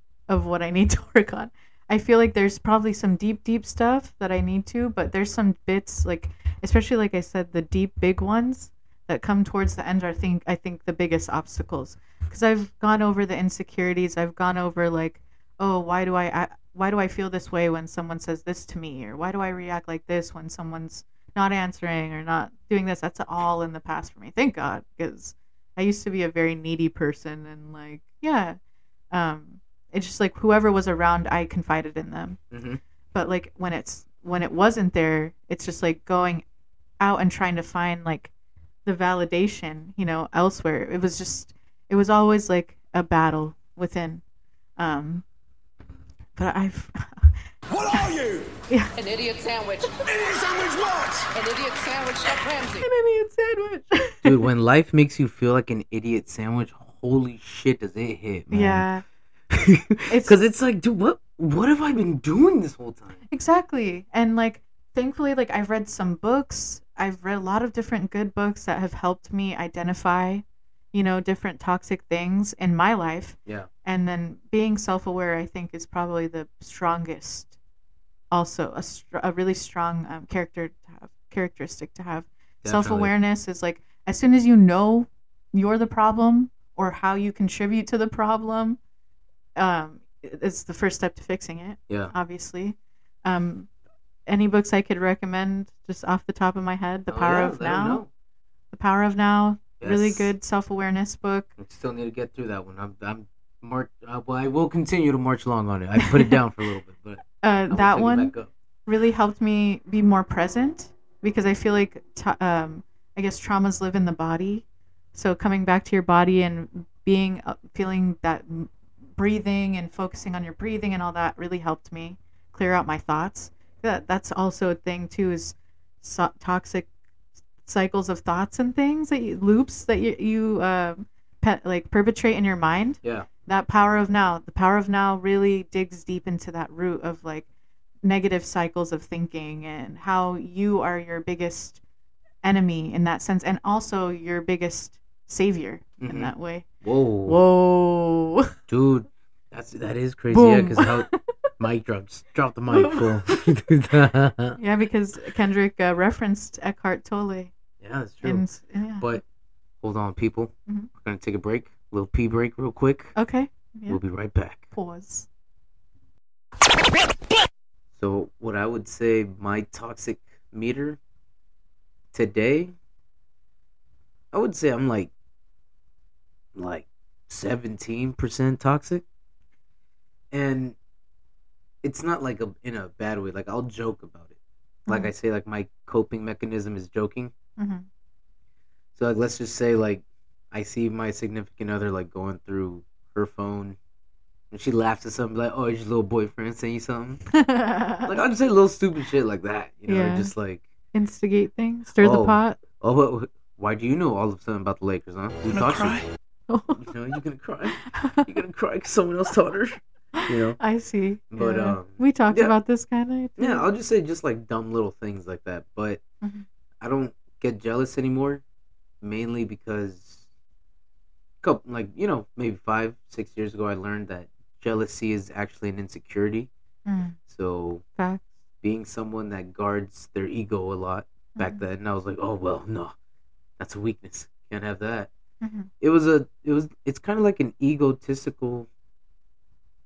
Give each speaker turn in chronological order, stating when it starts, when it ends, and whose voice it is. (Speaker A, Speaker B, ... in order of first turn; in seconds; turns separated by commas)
Speaker A: 0.3-28.6, Speaker A: 29.1-32.4, Speaker B: 32.5-32.8, Speaker A: 33.1-36.5, Speaker A: 37.0-38.3, Speaker A: 38.9-44.2, Speaker A: 44.8-45.2, Speaker A: 46.4-47.4, Speaker C: 47.7-48.5, Speaker D: 49.0-49.8, Speaker C: 49.1-52.4, Speaker D: 51.4-52.6, Speaker A: 52.8-54.4, Speaker B: 54.2-58.9, Speaker A: 58.5-59.0, Speaker B: 59.5-63.2, Speaker A: 60.1-60.4, Speaker A: 63.3-77.5, Speaker A: 78.3-88.8, Speaker B: 82.6-83.1, Speaker A: 89.6-93.7, Speaker A: 94.3-98.0, Speaker B: 97.1-98.1, Speaker A: 98.7-101.5, Speaker B: 99.8-100.3, Speaker B: 101.6-108.5, Speaker A: 106.0-106.3, Speaker A: 107.4-108.3, Speaker A: 108.9-126.9, Speaker A: 127.6-137.5, Speaker B: 133.0-133.3, Speaker A: 138.0-141.8, Speaker A: 142.4-146.7, Speaker B: 146.0-147.4, Speaker A: 147.2-148.5, Speaker B: 148.7-154.6, Speaker A: 150.3-151.2, Speaker A: 152.7-153.2, Speaker A: 154.6-157.5, Speaker B: 157.8-158.4, Speaker A: 158.2-159.1, Speaker B: 159.8-163.2, Speaker A: 163.2-164.0, Speaker B: 163.9-164.7, Speaker A: 164.7-165.3, Speaker B: 167.9-171.0, Speaker B: 172.1-172.8, Speaker B: 174.3-175.1, Speaker B: 176.6-179.0, Speaker B: 180.3-180.8, Speaker B: 181.8-184.3, Speaker B: 184.9-187.3, Speaker A: 187.6-187.9, Speaker B: 188.9-193.8, Speaker B: 194.5-197.2, Speaker A: 197.3-198.1, Speaker B: 198.1-200.6, Speaker A: 199.9-200.3, Speaker A: 200.9-202.6, Speaker B: 202.0-206.0, Speaker C: 205.5-206.0, Speaker A: 206.5-206.9, Speaker B: 206.8-210.6, Speaker A: 207.8-208.3, Speaker A: 210.2-213.7, Speaker B: 211.3-212.5, Speaker B: 213.4-216.0, Speaker B: 216.8-218.4, Speaker B: 219.0-220.3, Speaker B: 221.4-226.5, Speaker A: 226.9-227.2, Speaker B: 227.3-227.8, Speaker A: 228.0-228.3, Speaker B: 228.6-233.0, Speaker A: 231.3-231.6, Speaker B: 233.6-235.1, Speaker A: 235.4-235.7, Speaker B: 235.8-238.7